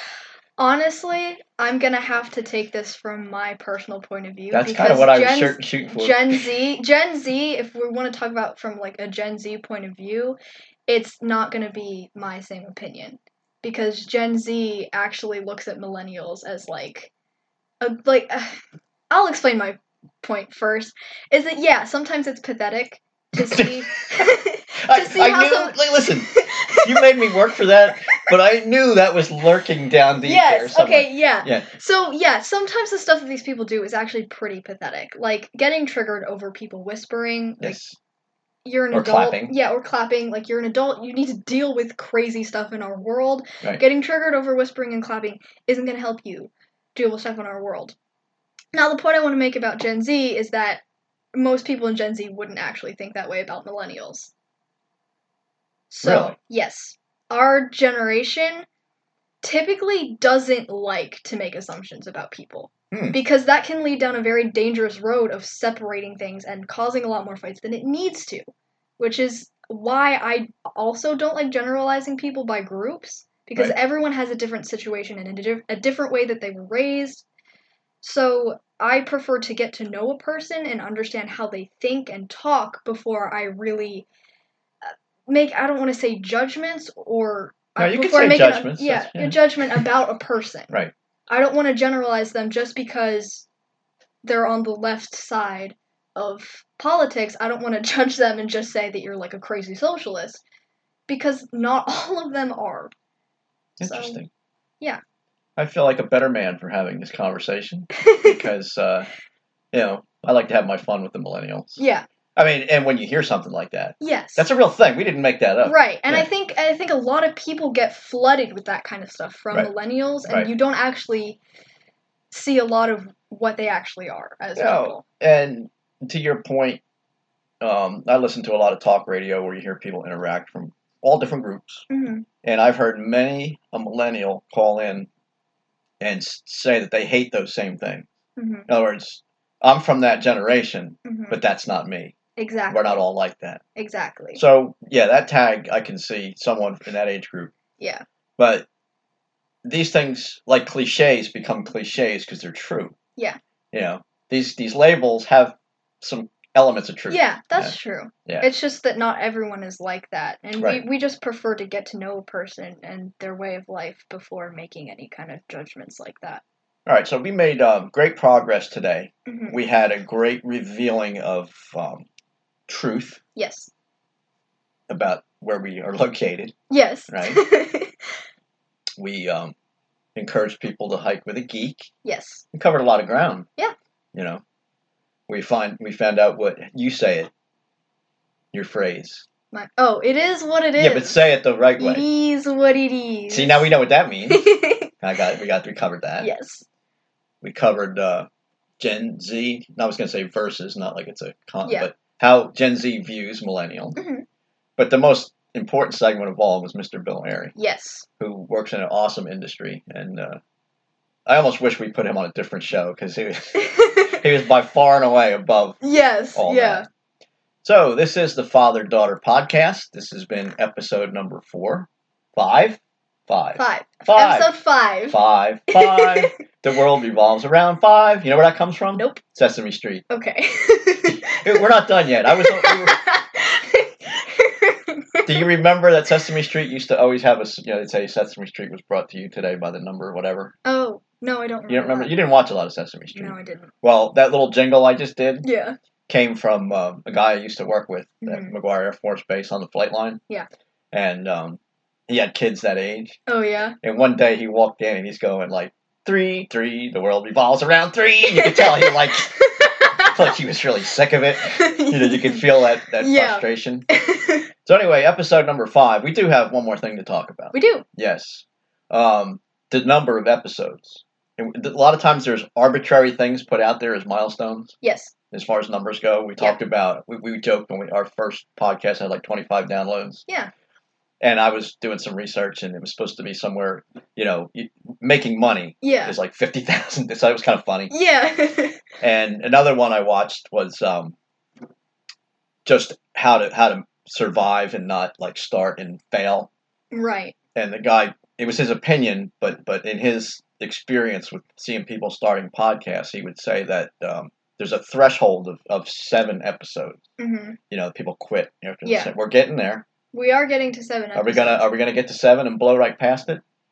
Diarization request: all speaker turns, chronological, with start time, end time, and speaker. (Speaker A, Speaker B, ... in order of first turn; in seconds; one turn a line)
Speaker A: 0.6-17.1
Speaker B: 4.5-6.5
Speaker A: 17.8-18.6
Speaker A: 19.1-28.3
Speaker B: 23.3-31.7
Speaker A: 30.2-37.8
Speaker B: 37.6-38.0
Speaker A: 38.6-48.0
Speaker B: 38.9-39.5
Speaker A: 48.7-50.8
Speaker A: 51.4-54.3
Speaker A: 55.9-58.7
Speaker B: 56.0-56.4
Speaker A: 59.4-77.2
Speaker B: 62.9-63.2
Speaker A: 78.0-84.1
Speaker A: 84.8-90.7
Speaker B: 87.8-89.9
Speaker A: 91.3-93.5
Speaker A: 94.2-100.4
Speaker A: 101.1-102.9
Speaker B: 103.8-104.3
Speaker A: 103.8-104.2
Speaker B: 105.6-109.1
Speaker A: 108.0-108.5
Speaker B: 109.7-111.8
Speaker A: 111.8-112.0
Speaker B: 112.4-116.3
Speaker A: 114.0-114.5
Speaker A: 115.6-121.4
Speaker A: 122.3-125.0
Speaker B: 124.6-126.8
Speaker B: 127.6-131.9
Speaker A: 131.9-132.3
Speaker B: 132.4-135.1
Speaker B: 136.0-138.1
Speaker A: 138.4-138.7
Speaker B: 138.7-142.2
Speaker A: 141.1-141.4
Speaker A: 142.4-143.0
Speaker B: 142.7-143.6
Speaker A: 143.8-144.4
Speaker B: 144.3-147.5
Speaker A: 147.8-148.0
Speaker B: 148.4-148.7
Speaker B: 149.6-153.0
Speaker B: 153.7-157.8
Speaker A: 157.1-166.4
Speaker B: 160.6-160.8
Speaker B: 166.9-172.1
Speaker A: 169.3-169.6
Speaker B: 172.7-173.2
Speaker A: 173.4-173.7
Speaker B: 174.9-176.6
Speaker A: 176.7-178.0
Speaker B: 177.1-177.4
Speaker B: 179.0-179.5
Speaker B: 180.2-181.9
Speaker A: 182.0-182.4
Speaker B: 182.5-183.5
Speaker B: 184.1-184.4
Speaker B: 185.3-187.3
Speaker B: 188.5-189.2
Speaker A: 189.5-191.2
Speaker B: 190.8-192.1
Speaker A: 191.8-193.7
Speaker B: 193.3-196.3
Speaker A: 194.3-194.9
Speaker A: 196.2-196.7
Speaker B: 197.4-198.3
Speaker B: 198.8-204.0
Speaker A: 201.6-201.9
Speaker A: 204.0-204.2
Speaker B: 204.8-207.6
Speaker A: 207.6-208.1
Speaker B: 208.2-210.4
Speaker B: 211.3-215.8
Speaker A: 213.6-214.2
Speaker A: 215.8-216.9
Speaker B: 216.3-216.8
Speaker B: 217.6-230.1
Speaker A: 223.6-226.3
Speaker A: 229.0-229.2
Speaker A: 230.1-231.7
Speaker B: 231.1-233.0
Speaker A: 232.3-235.5
Speaker B: 235.3-240.5
Speaker A: 240.7-242.2
Speaker B: 241.7-245.5
Speaker A: 243.1-243.7
Speaker A: 245.4-245.8
Speaker B: 246.1-250.2
Speaker A: 248.2-248.5
Speaker B: 250.9-253.2
Speaker A: 253.3-253.8
Speaker B: 253.8-259.5
Speaker A: 258.3-260.3
Speaker B: 260.0-263.9
Speaker A: 261.4-264.5
Speaker B: 264.6-274.8
Speaker A: 267.5-267.9
Speaker A: 274.8-275.1
Speaker B: 275.3-280.3
Speaker A: 280.3-280.5
Speaker B: 281.2-287.9
Speaker A: 285.8-286.2
Speaker A: 287.9-288.8
Speaker B: 289.0-291.2
Speaker B: 292.6-296.5
Speaker A: 296.9-297.4
Speaker B: 297.6-307.0
Speaker A: 307.2-307.6
Speaker B: 307.7-309.9
Speaker A: 308.9-309.1
Speaker A: 310.1-311.6
Speaker B: 311.1-313.4